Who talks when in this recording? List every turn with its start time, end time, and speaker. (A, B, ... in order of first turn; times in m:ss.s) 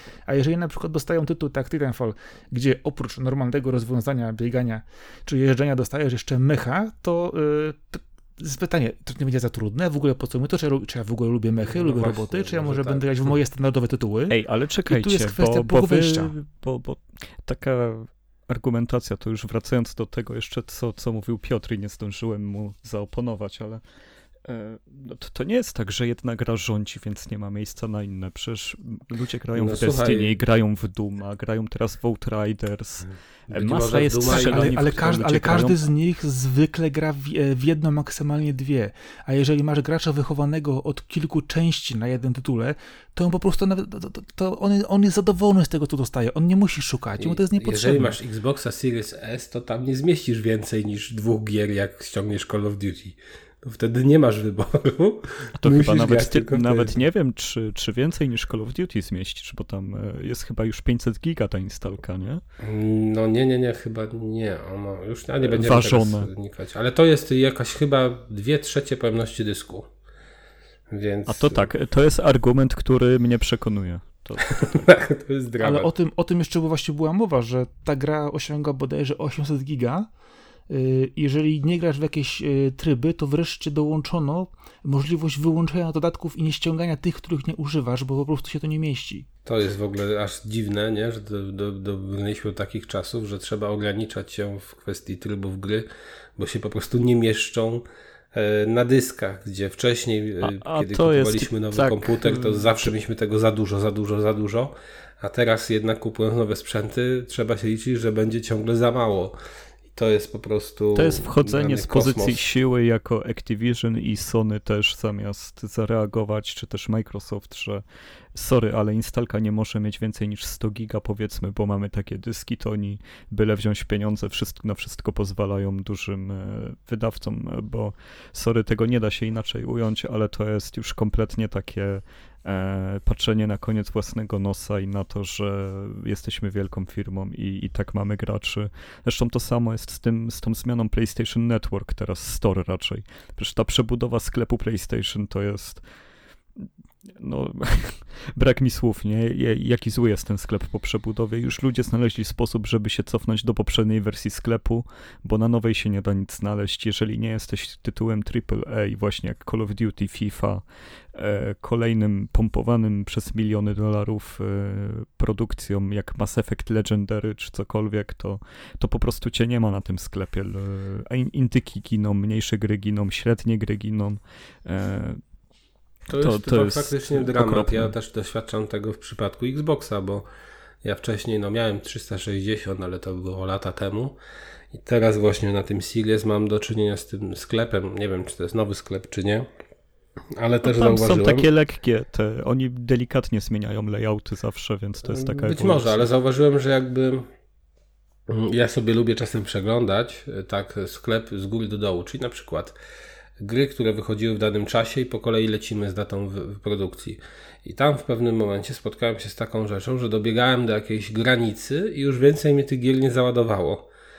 0:00.3-0:16.3 A
0:11.6-0:13.3 B
0:14.3-0:23.8 C
0:24.4-0:35.8 C
0:29.6-0:30.3 B
0:33.5-0:34.9 B
0:34.3-0:48.2 A
0:47.2-0:57.0 B
0:55.6-1:02.4 C
1:02.6-1:09.9 B
1:05.5-1:06.3 C
1:10.9-1:11.6 B
1:11.3-1:14.8 C
1:14.4-1:15.9 B
1:15.6-1:20.1 A
1:20.7-1:29.2 A
1:29.4-1:49.4 B
1:40.4-1:42.9 C
1:49.9-1:52.4 B
1:50.9-1:57.8 C
1:58.3-2:25.8 C
2:26.6-2:55.2 C
2:56.1-3:00.3 B
2:56.1-2:57.9 C
3:00.8-3:04.2 B
3:04.7-3:09.5 B
3:10.4-3:11.5 B
3:10.6-3:16.1 C
3:15.1-3:17.3 B
3:18.3-3:22.7 B
3:23.4-3:33.9 B